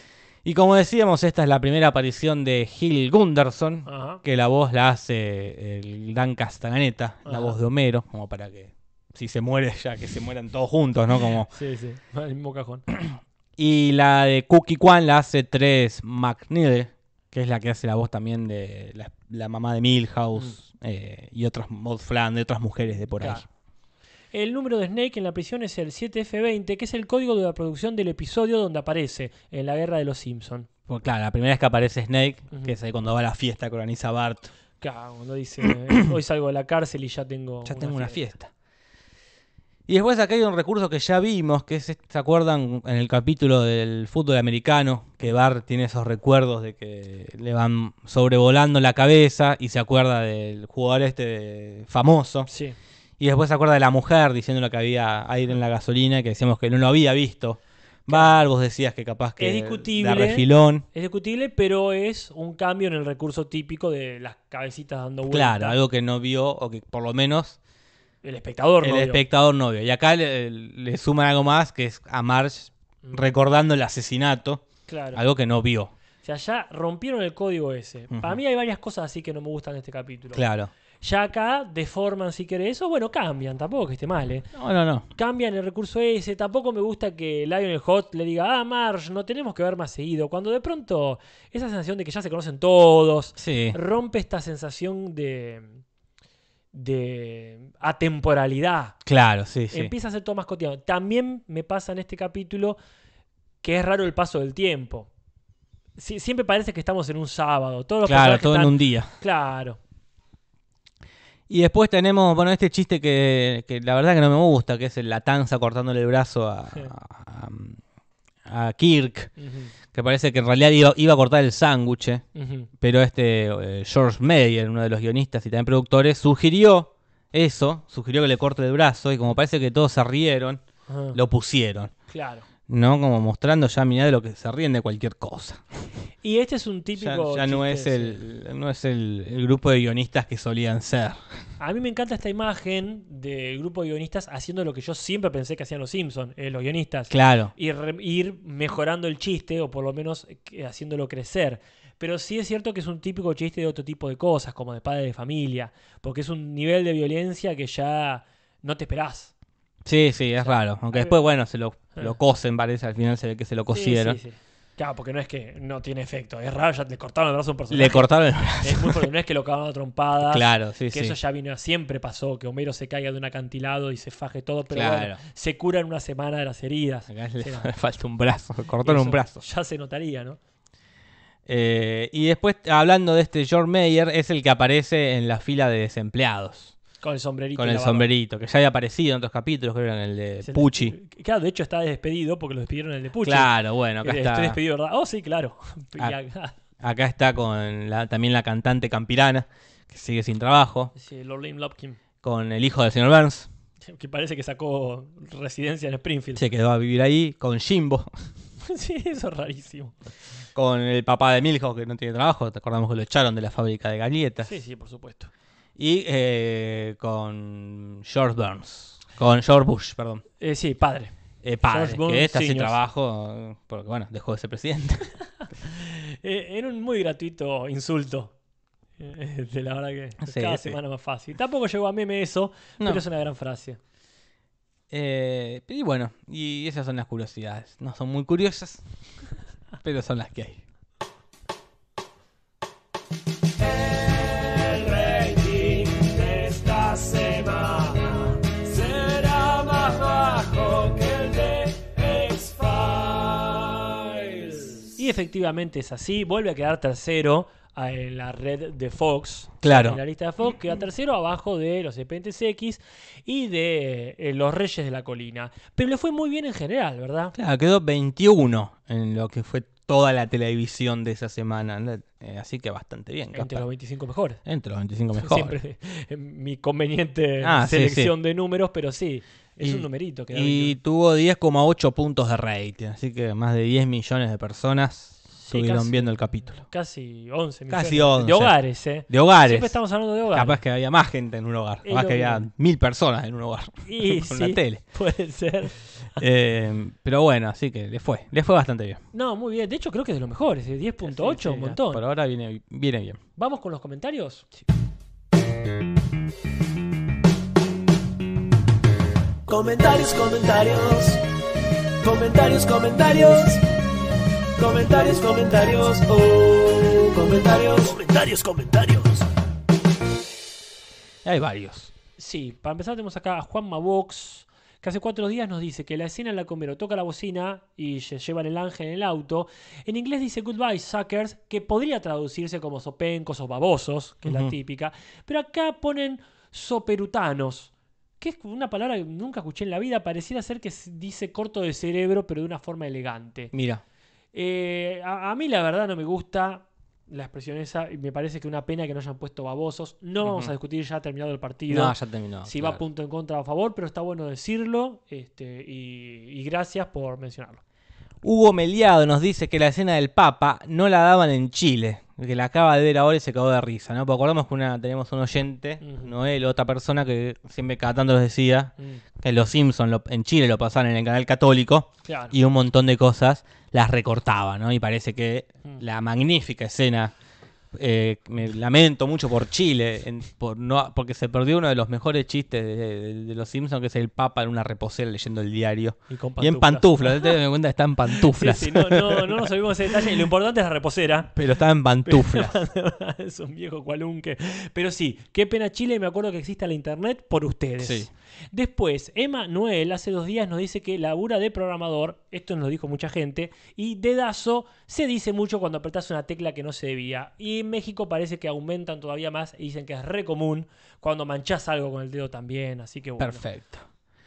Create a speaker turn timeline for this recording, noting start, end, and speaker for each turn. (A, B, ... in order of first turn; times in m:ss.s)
0:00.4-0:11.5 A
0:03.9-0:04.2 B
0:07.3-0:07.6 B
0:11.5-0:12.8 B
0:13.0-0:23.4 A
0:23.2-0:23.4 B
0:24.3-0:30.7 B
0:30.9-0:34.5 A
0:34.8-0:38.3 B
0:35.6-0:36.0 A
0:37.6-0:38.5 A
0:39.9-0:52.5 A
0:52.5-0:52.8 B
0:53.2-1:00.9 A
0:58.1-0:58.4 B
0:59.4-1:05.8 B
1:05.3-1:07.6 A
1:08.2-1:09.2 B
1:08.8-1:15.9 A
1:14.9-1:15.2 B
1:16.2-1:20.4 B
1:18.1-1:18.4 A
1:20.3-1:20.7 A
1:21.0-1:24.5 B
1:24.5-1:25.1 A
1:25.1-1:35.8 B
1:33.4-1:33.8 A
1:36.7-1:39.0 B
1:39.0-1:39.9 A
1:39.7-1:42.8 B
1:43.6-1:45.1 B
1:46.0-1:49.8 B
1:48.0-1:49.1 A
1:51.5-1:57.8 A
1:58.5-1:59.3 A
1:59.4-1:59.7 B
1:59.9-2:02.2 A
2:02.4-2:02.7 B
2:02.8-2:10.6 A
2:10.9-2:11.2 B
2:11.1-2:11.9 A
2:12.1-2:12.4 B
2:12.7-2:15.6 A
2:16.2-2:18.2 B
2:17.0-2:21.2 A
2:21.6-2:39.3 B
2:27.1-2:27.5 A
2:39.8-2:44.2 A
2:40.4-2:41.2 B
2:43.7-2:57.7 B
2:47.7-2:49.0 A
2:50.2-2:51.2 A
2:54.7-2:55.2 A
2:57.1-2:59.4 A
2:58.8-3:00.4 B
3:01.5-3:06.8 A
3:07.0-3:08.1 B
3:07.6-3:11.0 A
3:10.4-3:16.5 B
3:13.2-3:14.6 A
3:16.8-3:20.9 A
3:21.0-3:22.0 B
3:22.2-3:23.5 A
3:23.8-3:26.4 B
3:26.4-3:28.1 A
3:28.6-3:30.0 B
3:30.6-3:34.5 A
3:34.4-3:35.3 B
3:35.8-3:40.2 A
3:40.4-3:41.1 B
3:41.4-3:45.1 A
3:41.7-3:42.8 B
3:45.6-3:48.3 B
3:49.0-3:53.8 B
3:50.2-3:50.8 A
3:54.9-3:58.8 A
3:59.8-4:00.6 A
4:03.8-4:14.6 C
4:15.0-4:27.3 B
4:19.6-4:20.0 A
4:27.3-4:33.6 A
4:33.3-4:34.4 B
4:34.4-4:35.6 A
4:35.2-4:40.8 B
4:37.4-4:38.1 A
4:39.6-4:46.6 A
4:45.4-4:50.6 B
4:47.7-4:48.6 A
4:49.1-4:49.7 A
4:50.3-4:54.8 A
4:51.8-4:52.4 B
4:53.8-4:55.8 B
4:56.2-4:59.0 A
4:59.1-5:02.0 B
5:01.0-5:03.2 A
5:03.4-5:04.5 B
5:09.5-5:11.2 C
5:12.0-5:13.6 C
5:14.6-5:19.2 C
5:21.2-5:21.9 A
5:22.2-5:43.5 B
5:34.2-5:34.6 A
5:43.5-5:43.8 A
5:44.3-5:57.6 B
5:50.2-5:50.5 A
5:51.7-5:52.8 A
5:58.2-6:17.1 A
6:05.8-6:06.1 B
6:12.1-6:12.4 B
6:17.7-6:30.2 A
6:26.1-6:27.3 B
6:28.2-6:31.3 B
6:31.4-6:32.6 A
6:32.1-6:53.4 B
6:37.8-6:38.1 A
6:53.2-6:53.9 A